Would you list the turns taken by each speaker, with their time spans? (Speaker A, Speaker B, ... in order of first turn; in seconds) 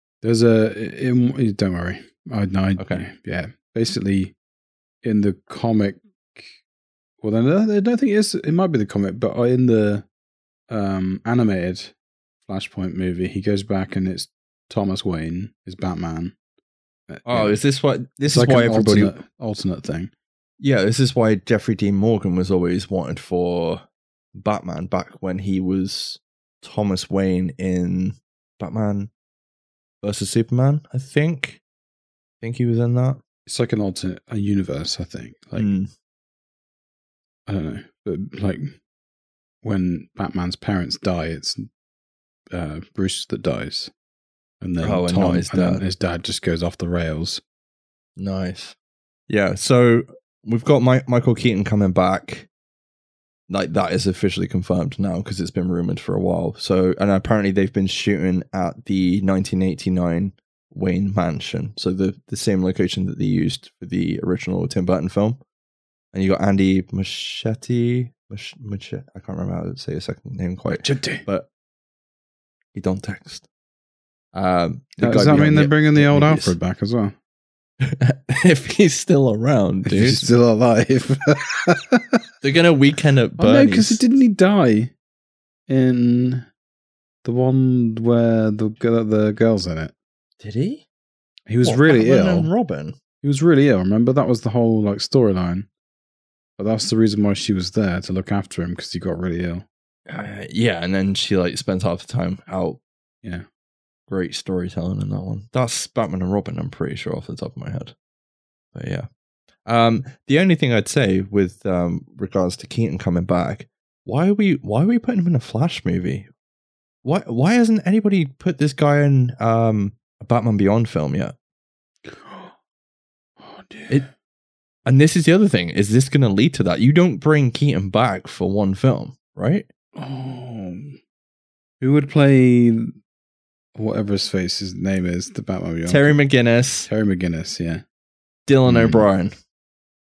Speaker A: 0.2-4.3, 5.0-6.5, 7.2-10.1, 10.7-11.9, 12.5-16.3, 17.1-17.6, 18.2-20.1, 33.5-35.7, 37.5-38.8, 39.6-41.7, 42.5-43.9, 44.6-47.4, 70.7-71.2, 75.0-77.1, 79.8-82.2, 83.4-84.9, 85.7-86.5, 87.2-89.9, 91.5-92.5, 93.2-95.7, 96.6-99.7, 122.1-122.5, 123.4-124.1, 130.0-131.0, 131.8-132.9, 133.7-136.2, 136.9-137.8, 138.7-139.0
Speaker B: 2.8-3.0, 17.2-19.1, 20.6-23.8, 24.3-29.1, 30.0-31.6, 32.4-33.2, 35.5-35.9, 44.8-45.8, 48.2-48.7, 49.3-52.5, 53.5-65.4, 66.1-71.5, 72.7-73.5, 74.3-76.5, 77.8-80.2, 82.4-84.0, 90.4-90.8, 91.6-93.0, 100.1-102.8, 104.1-107.9, 108.7-109.1, 109.7-116.3, 117.0-121.3, 124.8-129.7, 135.8-136.9, 138.5-139.3